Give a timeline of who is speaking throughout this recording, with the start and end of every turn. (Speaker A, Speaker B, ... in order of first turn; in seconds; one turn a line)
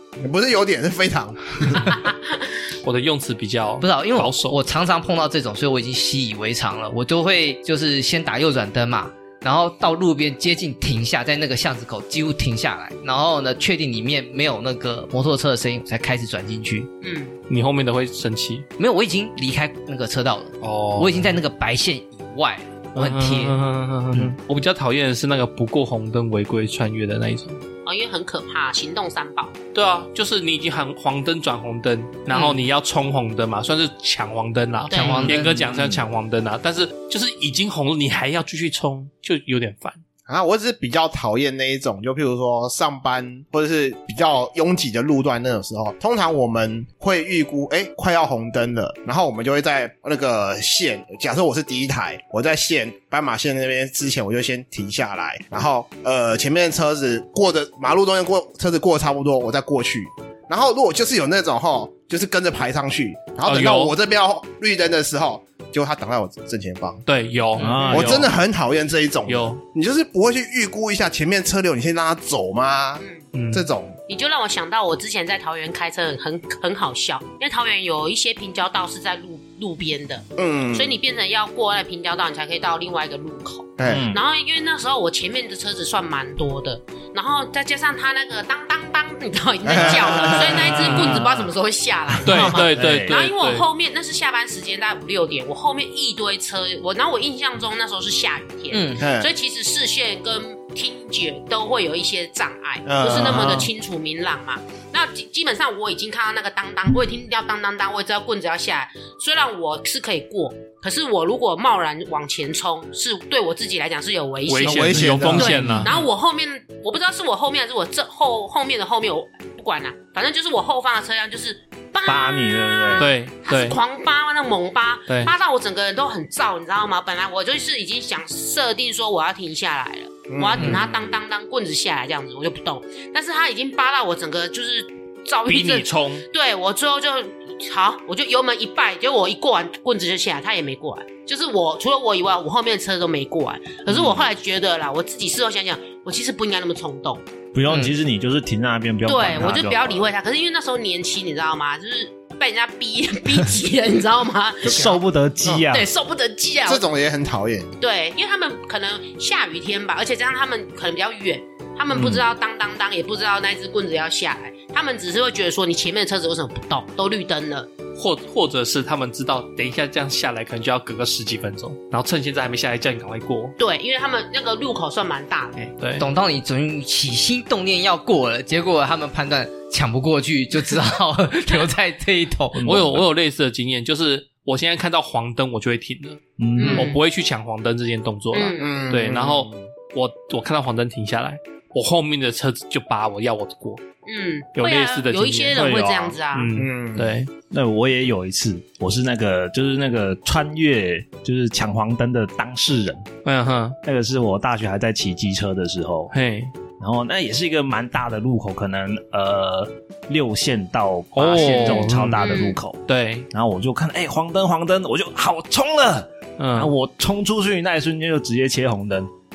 Speaker A: 0.2-1.9
Speaker B: 1.9-2.2
Speaker C: 2.8-4.6
Speaker D: 3.8-16.9
Speaker B: 17.0-17.4
Speaker C: 17.5-18.7
Speaker D: 18.8-23.6
Speaker C: 20.6-21.4
Speaker C: 22.9-27.6
Speaker B: 27.8-29.5
Speaker C: 29.7-40.0
Speaker B: 32.3-32.6
Speaker B: 34.9-35.4
Speaker D: 34.9-35.7
Speaker E: 35.7-36.0
Speaker A: 40.3-67.0
Speaker C: 63.4-63.9
Speaker C: 67.1-68.3
Speaker E: 67.6-68.2
Speaker D: 67.6-68.0
Speaker A: 67.9-74.0
Speaker C: 69.3-69.6
Speaker C: 73.3-73.7
Speaker B: 74.1-147.2
Speaker A: 80.4-81.0
Speaker A: 83.8-84.1
Speaker E: 83.8-84.2
Speaker A: 89.6-90.9
Speaker E: 90.3-91.4
Speaker C: 90.7-91.2
Speaker C: 92.2-93.7
Speaker E: 92.3-93.2
Speaker D: 98.7-99.0
Speaker A: 99.0-99.3
Speaker A: 102.8-103.7
Speaker C: 114.5-116.0
Speaker A: 114.6-115.7
Speaker E: 115.4-115.8
Speaker E: 122.0-123.1
Speaker C: 123.0-123.8
Speaker A: 130.3-130.9
Speaker C: 135.5-136.2
Speaker E: 147.5-150.1
Speaker D: 147.7-147.9
Speaker B: 149.0-155.0
Speaker E: 154.6-155.9
Speaker B: 155.7-156.8
Speaker A: 156.7-157.7
Speaker B: 157.8-167.7
Speaker E: 161.9-162.2
Speaker C: 168.0-173.6
Speaker B: 173.6-175.7
Speaker D: 175.6-182.8
Speaker C: 175.8-176.1
Speaker E: 182.6-183.0
Speaker C: 182.6-193.8
Speaker E: 186.4-186.9
Speaker B: 186.6-187.0
Speaker B: 188.3-188.7
Speaker A: 188.6-189.6
Speaker B: 194.1-196.5
Speaker C: 194.6-195.6
Speaker E: 195.5-196.2
Speaker C: 196.3-197.3
Speaker A: 196.5-197.2
Speaker E: 197.5-203.1
Speaker C: 203.2-203.8
Speaker E: 203.8-206.1
Speaker C: 206.1-206.5
Speaker E: 206.8-219.1
Speaker C: 211.1-212.2
Speaker B: 211.4-212.6
Speaker C: 212.9-213.3
Speaker C: 216.4-216.7